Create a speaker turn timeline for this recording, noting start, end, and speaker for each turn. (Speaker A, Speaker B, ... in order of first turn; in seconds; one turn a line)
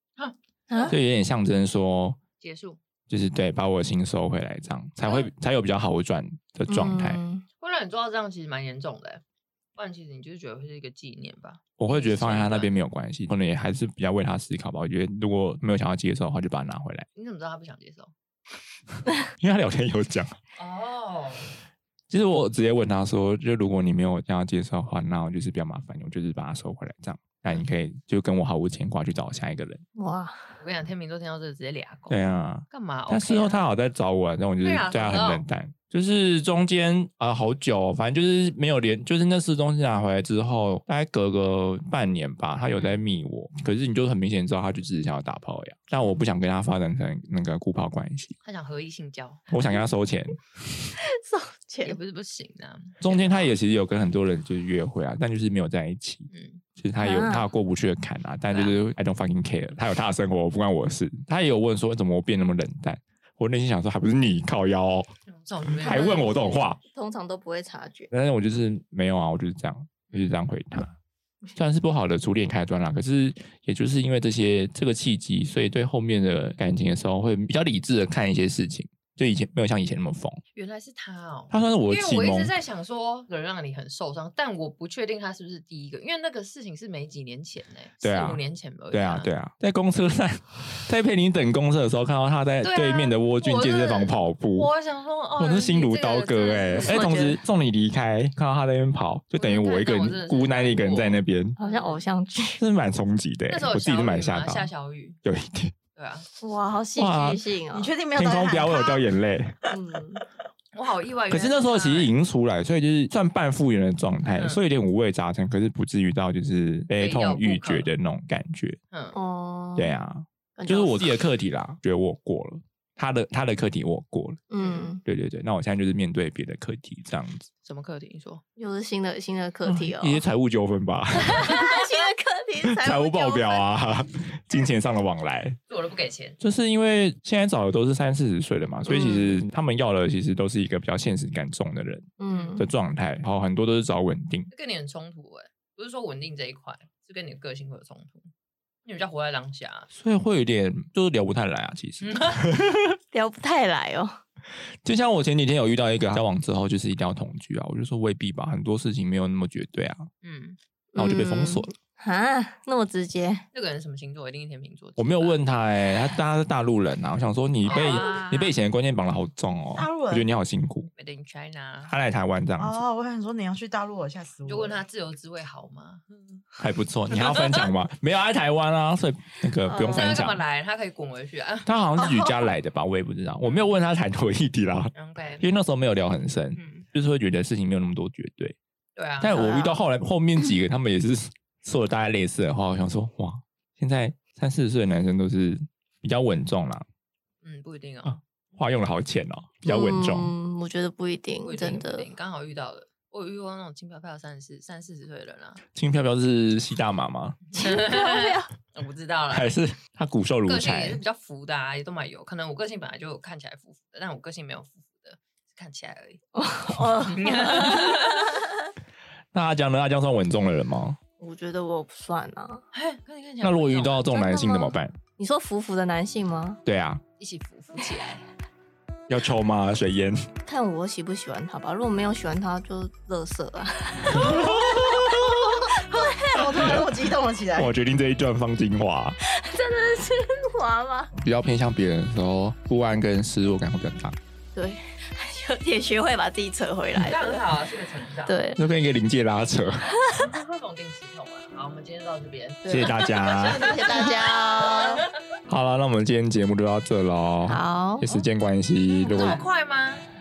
Speaker A: 0.2-1.0
Speaker B: 0.7-1.0
Speaker C: 0.9-2.2
Speaker A: 2.4-2.8
Speaker C: 3.1-7.2
Speaker B: 6.7-7.4
Speaker A: 7.6-9.2
Speaker A: 9.8-12.7
Speaker C: 11.8-17.1
Speaker A: 17.1-18.1
Speaker C: 19.4-20.4
Speaker A: 20.6-21.5
Speaker C: 22.1-29.8
Speaker B: 30.0-30.5
Speaker A: 30.6-33.6
Speaker C: 32.1-48.4
Speaker A: 34.6-35.4
Speaker A: 42.7-43.0
Speaker A: 48.4-49.5
Speaker C: 49.5-50.9
Speaker B: 51.0-52.0
Speaker A: 51.8-53.5
Speaker C: 53.0-65.1
Speaker A: 56.3-56.6
Speaker B: 57.0-57.5
Speaker A: 58.5-58.8
Speaker A: 65.3-66.6
Speaker C: 65.7-66.8
Speaker B: 65.8-66.3
Speaker B: 66.9-68.1
Speaker C: 68.1-70.9
Speaker A: 70.1-70.4
Speaker C: 71.6-80.4
Speaker A: 80.5-89.3
Speaker C: 81.5-82.5
Speaker C: 88.0-94.7
Speaker A: 92.6-97.4
Speaker C: 95.4-101.6
Speaker A: 99.3-102.0
Speaker B: 101.6-102.6
Speaker C: 102.6-104.7
Speaker A: 103.5-105.2
Speaker C: 105.2-105.8
Speaker A: 105.9-106.3
Speaker B: 106.4-107.9
Speaker C: 107.0-107.4
Speaker D: 107.7-109.1
Speaker C: 108.2-109.6
Speaker B: 109.7-110.2
Speaker A: 110.7-112.1
Speaker C: 111.3-118.8
Speaker A: 114.4-114.6
Speaker A: 116.9-117.9
Speaker A: 118.9-119.2
Speaker B: 119.1-120.0
Speaker C: 119.8-124.5
Speaker B: 120.6-121.1
Speaker B: 124.5-125.0
Speaker C: 125.0-127.5
Speaker A: 127.6-128.4
Speaker B: 128.6-130.2
Speaker C: 129.7-131.8
Speaker B: 131.2-133.7
Speaker C: 132.6-135.6
Speaker A: 135.7-136.4
Speaker C: 136.4-144.5
Speaker B: 138.9-139.4
Speaker B: 142.2-142.7
Speaker A: 142.3-142.6
Speaker A: 144.5-148.3
Speaker A: 148.8-149.9
Speaker C: 149.9-152.8
Speaker A: 152.0-152.5
Speaker B: 153.1-154.2
Speaker C: 154.8-160.1
Speaker A: 160.2-160.6
Speaker B: 160.9-163.4
Speaker C: 161.0-161.8
Speaker A: 163.5-165.4
Speaker C: 165.0-170.9
Speaker A: 167.6-168.6
Speaker B: 167.7-168.0
Speaker D: 169.7-170.3
Speaker A: 171.0-172.0
Speaker C: 171.9-172.8
Speaker D: 172.6-174.8
Speaker A: 174.5-176.6
Speaker C: 176.6-180.4
Speaker A: 177.1-177.7
Speaker B: 179.7-180.2
Speaker A: 179.8-181.7
Speaker C: 181.7-188.6
Speaker D: 182.0-182.3
Speaker A: 183.4-183.7
Speaker A: 184.9-185.4
Speaker A: 186.6-186.9
Speaker A: 189.0-189.5
Speaker C: 189.2-196.8
Speaker B: 189.3-189.8
Speaker A: 197.4-198.2
Speaker C: 198.1-200.3
Speaker B: 199.7-202.1
Speaker A: 201.4-205.6
Speaker C: 205.7-207.4
Speaker A: 207.5-209.6
Speaker B: 207.6-208.5
Speaker C: 209.3-211.0
Speaker A: 210.5-216.2
Speaker B: 216.3-218.6
Speaker A: 217.1-218.4
Speaker C: 219.3-221.0
Speaker B: 221.2-222.6
Speaker A: 222.7-224.3
Speaker C: 223.4-224.9
Speaker B: 224.2-226.6
Speaker C: 226.7-227.0
Speaker A: 227.2-228.2
Speaker C: 229.1-230.2
Speaker B: 230.5-236.7
Speaker C: 234.1-235.6
Speaker D: 235.8-237.7
Speaker C: 236.6-236.9
Speaker C: 237.6-239.2
Speaker B: 239.2-241.1
Speaker C: 241.2-244.2
Speaker B: 244.6-247.4
Speaker A: 246.9-248.4
Speaker B: 248.3-248.6
Speaker C: 248.6-250.0
Speaker B: 250.0-250.3
Speaker A: 250.3-253.5
Speaker B: 252.7-255.1
Speaker C: 252.7-253.9
Speaker D: 253.2-254.6
Speaker A: 254.3-254.9
Speaker C: 255.5-259.4
Speaker B: 257.5-258.1
Speaker A: 258.9-260.1